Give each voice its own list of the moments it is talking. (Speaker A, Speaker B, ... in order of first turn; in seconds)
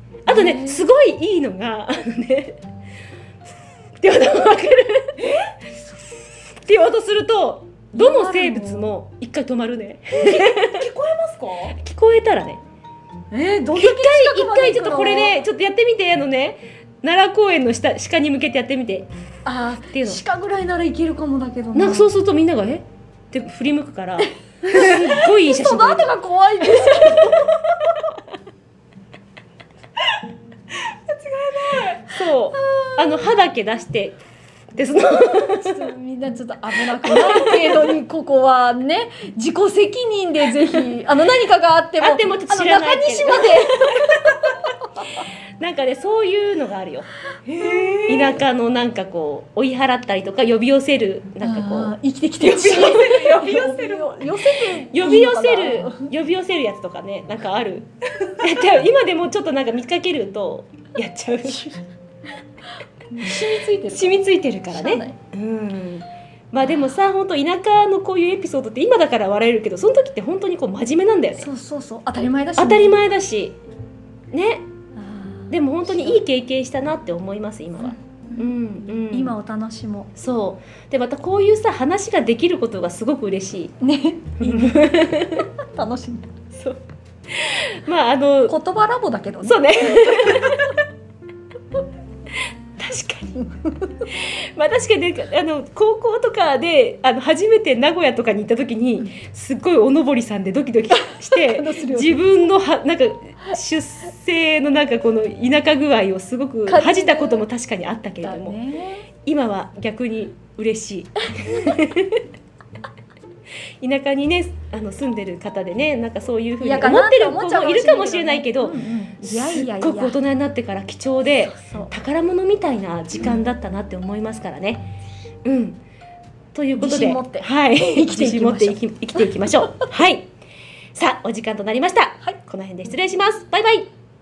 Speaker A: 0.2-2.6, 4.0-5.2, 6.5-10.8, 11.8-12.6, 13.8-19.1, 19.9-20.2, 21.8-26.1, 32.1-34.2, 34.8-35.8, 37.1-37.8, 42.0-44.0, 45.6-47.1, 48.1-51.9, 54.9-61.7, 63.9-71.5, 72.6-73.6, 74.3-74.7, 75.5-79.3, 80.2-83.7, 84.4-85.5, 87.3-88.6, 89.4-90.8, 92.8-93.4, 94.1-108.6, 109.2-112.2, 113.8-124.9, 125.5-125.8, 126.5-130.3, 130.9-133.9
Speaker B: 0.3-0.8, 8.0-8.9, 13.3-15.4, 19.5-22.1, 24.6-27.5, 32.5-33.1, 35.3-44.3, 51.4-56.1, 63.1-65.1, 71.4-73.0, 75.0-76.2, 79.1-80.1, 83.8-86.5, 88.5-90.6, 93.4-93.7, 100.9-102.2, 106.7-107.5, 108.2-109.1, 116.6-120.2, 121.4-121.9, 126.8-129.9
Speaker C: 5.2-5.6, 10.2-11.8, 30.8-32.1, 47.5-48.4, 52.4-54.3